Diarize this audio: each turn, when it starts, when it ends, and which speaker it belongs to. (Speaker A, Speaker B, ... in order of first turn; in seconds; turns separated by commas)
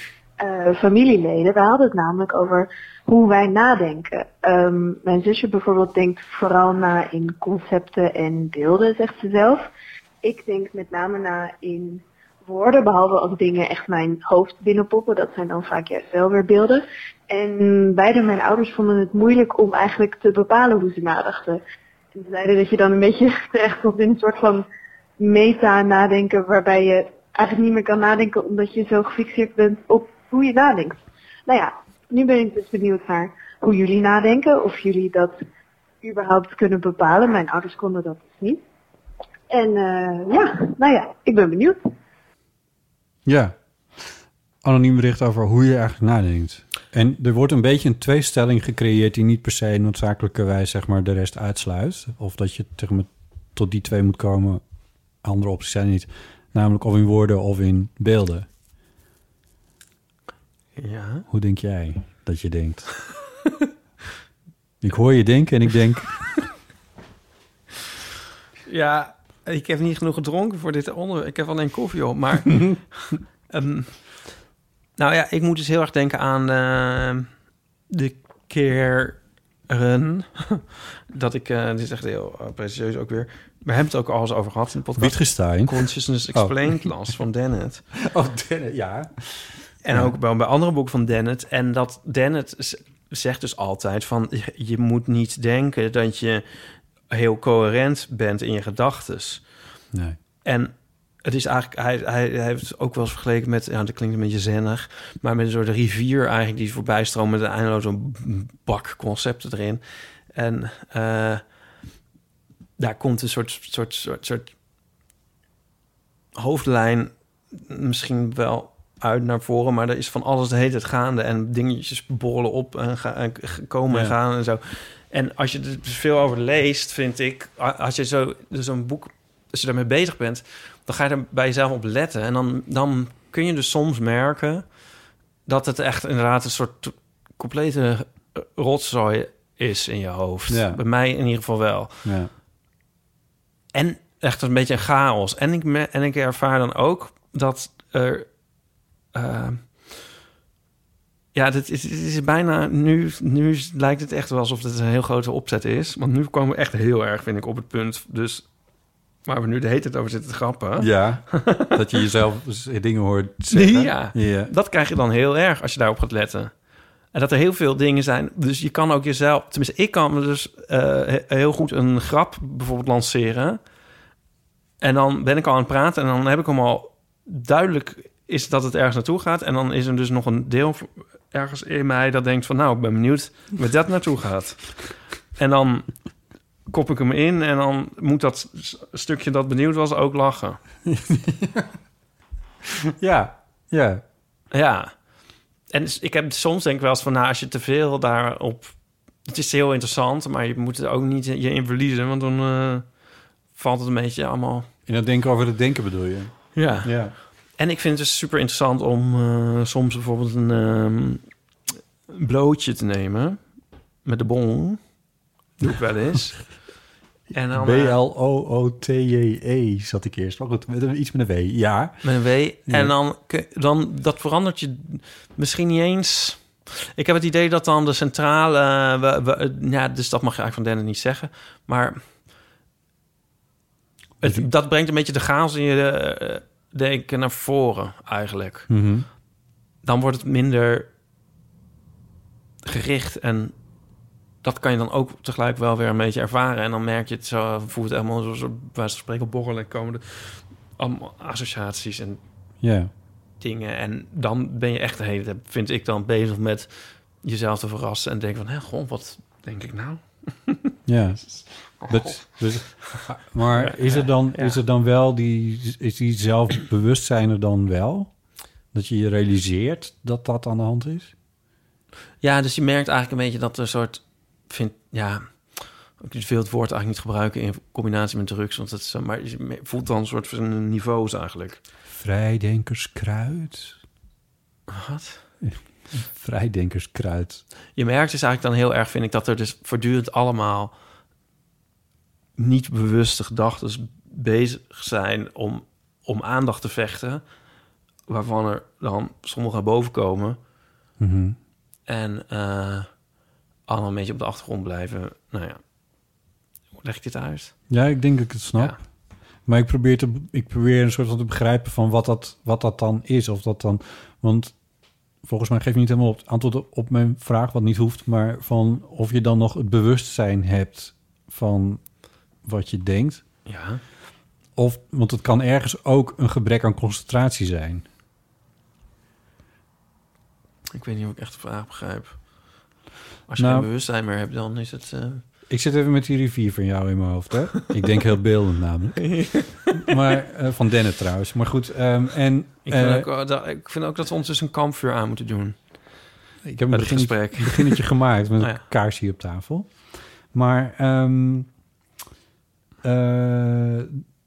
Speaker A: 0.4-9.7, Speaker A: 10.2-21.6, Speaker A: 22.1-24.7, Speaker A: 25.2-35.4, Speaker A: 36.0-38.6, Speaker A: 39.5-41.8, Speaker B: 43.2-44.1, Speaker B: 44.6-54.6, Speaker B: 55.2-58.5, Speaker C: 60.8-61.3, Speaker B: 61.3-62.9, Speaker B: 64.8-66.2, Speaker C: 68.7-72.7, Speaker C: 73.5-73.9, Speaker C: 75.0-77.3, Speaker C: 77.9-87.8, Speaker B: 85.0-86.9, Speaker B: 88.0-90.1, Speaker C: 89.8-99.4, Speaker B: 99.9-100.2, Speaker C: 100.4-111.4, Speaker C: 112.8-114.5, Speaker C: 116.3-134.7, Speaker B: 123.9-124.2, Speaker C: 135.4-142.0, Speaker B: 140.5-140.8, Speaker B: 142.0-142.3, Speaker C: 143.7-148.3, Speaker C: 149.1-149.9, Speaker C: 151.3-158.5, Speaker C: 159.2-161.7, Speaker B: 160.8-164.5, Speaker C: 163.5-166.5, Speaker C: 167.1-173.6, Speaker C: 174.8-185.9, Speaker C: 186.7-190.6, Speaker B: 190.8-191.7, Speaker B: 192.8-194.0, Speaker C: 194.5-195.0, Speaker C: 195.7-202.9, Speaker C: 203.5-204.7, Speaker B: 204.8-207.1, Speaker C: 206.5-211.2, Speaker C: 212.1-213.4, Speaker C: 214.0-214.9, Speaker C: 215.6-216.5, Speaker C: 217.3-218.0, Speaker B: 217.5-222.1, Speaker C: 222.0-232.0, Speaker B: 222.7-222.9, Speaker C: 234.2-238.7, Speaker B: 238.7-239.1, Speaker C: 239.8-240.9, Speaker C: 242.6-243.5, Speaker C: 244.4-252.2, Speaker B: 252.6-252.9, Speaker C: 253.4-264.6, Speaker B: 260.9-268.1, Speaker B: 268.7-271.1, Speaker C: 272.2-281.6, Speaker B: 281.9-283.8, Speaker C: 284.7-285.2, Speaker B: 285.4-287.4, Speaker C: 287.8-290.7, Speaker C: 292.4-297.2, Speaker C: 298.1-300.4, Speaker B: 301.0-301.4, Speaker C: 301.9-302.9, Speaker C: 303.7-305.6, Speaker C: 306.8-307.5, Speaker B: 307.7-308.8, Speaker B: 309.4-314.5, Speaker B: 315.2-321.8, Speaker B: 322.4-323.2, Speaker C: 323.4-323.8, Speaker B: 324.6-327.9, Speaker C: 330.7-332.2, Speaker C: 333.3-335.2, Speaker B: 333.4-333.7, Speaker B: 335.5-343.1, Speaker C: 339.0-339.9, Speaker C: 342.6-345.9, Speaker B: 346.4-349.8, Speaker C: 346.7-347.8, Speaker B: 350.3-351.5, Speaker B: 352.8-354.0